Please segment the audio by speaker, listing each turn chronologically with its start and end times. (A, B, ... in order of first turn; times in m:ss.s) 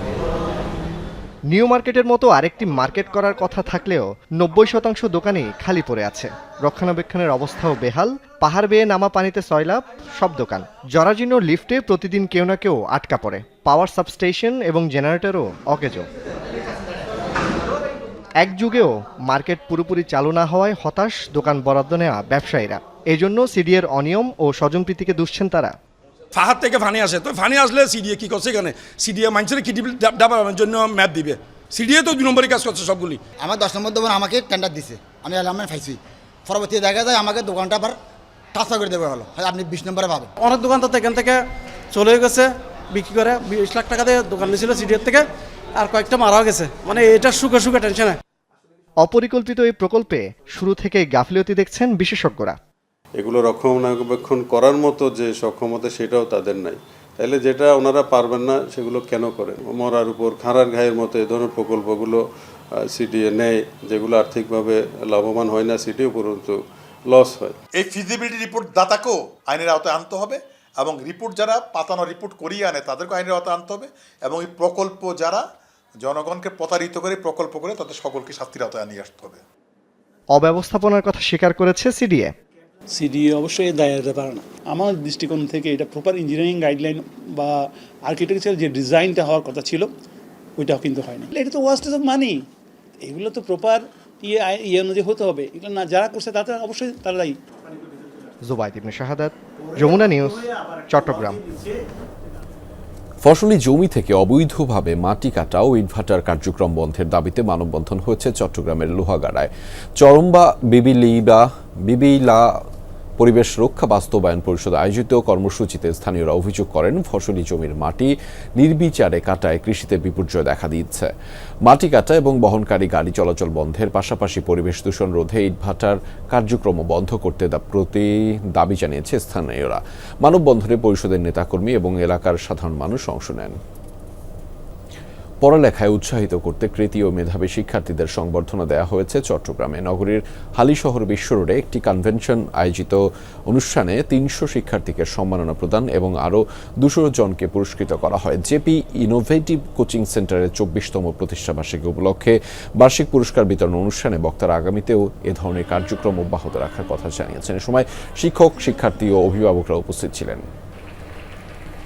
0:01.5-0:16.0 A
0:18.4-0:25.8 A
0:26.3-0:33.2 B
0:33.4-0:38.0 C
0:38.5-0:40.3 C
0:40.4-0:41.4 D
0:41.9-0:45.2 D
0:45.8-0:48.2 D
0:49.0-0:52.6 A
0:53.2-1:02.2 E
1:02.8-1:06.6 E
1:07.1-1:07.6 E
1:07.8-1:15.4 F
1:16.0-1:19.4 F
1:20.3-1:22.3 A
1:22.9-1:29.9 G
1:30.6-1:32.4 G
1:33.0-1:38.0 G
1:38.5-1:41.4 A
1:40.0-1:40.5 G
1:41.0-1:41.7 G
1:43.2-1:52.6 H
1:53.2-2:01.1 H
2:01.6-2:13.6 H
2:15.4-2:40.4 H